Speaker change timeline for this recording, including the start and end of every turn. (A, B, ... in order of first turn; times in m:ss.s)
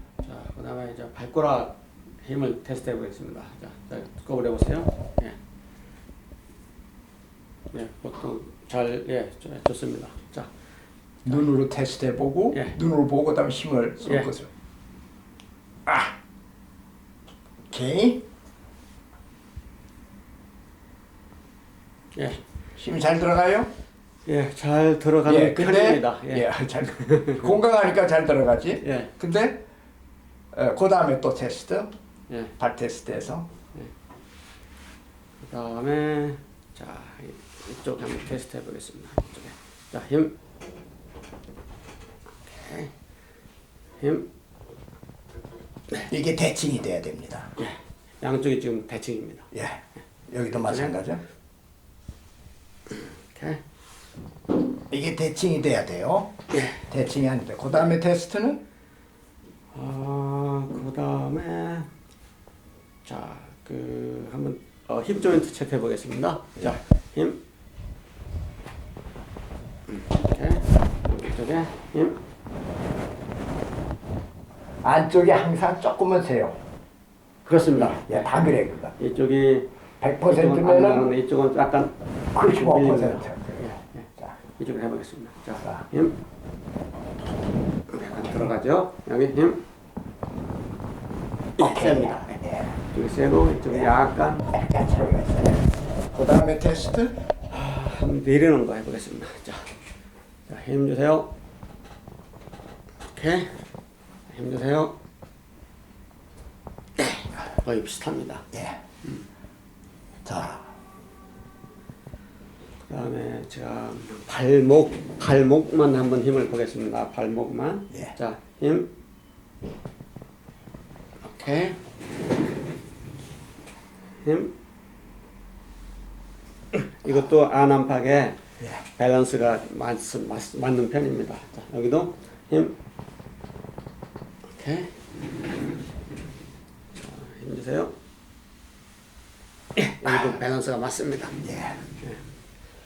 0:00.2-0:05.4 A
0:07.7-0:10.5 A
0:11.2-0:14.5 B
0:12.5-0:12.8 A
0:14.0-0:14.3 A
0:15.9-0:16.1 B
0:17.7-0:18.2 B
0:22.1-0:22.4 A
0:22.8-0:23.7 B
0:24.2-0:27.5 A
0:25.2-0:29.6 B
0:28.8-0:29.1 A
0:30.5-0:31.9 B
0:32.6-0:33.5 B
0:35.4-0:40.3 A
0:42.5-0:42.9 A
0:44.0-0:44.3 A
0:46.0-0:47.5 B
0:47.6-0:49.5 A
0:49.5-0:51.2 B
0:50.5-0:51.0 A
0:52.9-0:53.6 A
0:54.9-0:56.3 B
0:56.5-0:56.8 A
0:56.9-0:58.6 B
0:59.7-1:01.9 A
1:03.0-1:07.4 A
1:09.9-1:12.2 A
1:14.8-1:16.6 B
1:17.4-1:19.7 A
1:17.7-1:18.9 B
1:20.0-1:21.1 B
1:20.2-1:26.2 A
1:22.3-1:24.3 B
1:25.6-1:25.8 B
1:27.9-1:29.6 A
1:31.6-1:34.5 A
1:31.6-1:32.8 B
1:34.5-1:37.2 B
1:37.5-1:39.7 A
1:40.5-1:41.3 A
1:43.1-1:43.6 A
1:44.3-1:45.0 A
1:47.0-1:48.5 A
1:48.5-1:48.8 B
1:50.2-1:50.7 B
1:52.9-1:58.9 A
2:01.2-2:01.9 A
2:04.2-2:04.5 A
2:06.7-2:12.8 A
2:14.5-2:15.0 A
2:16.9-2:17.9 A
2:19.8-2:21.4 A
2:20.1-2:20.3 B
2:21.4-2:21.8 B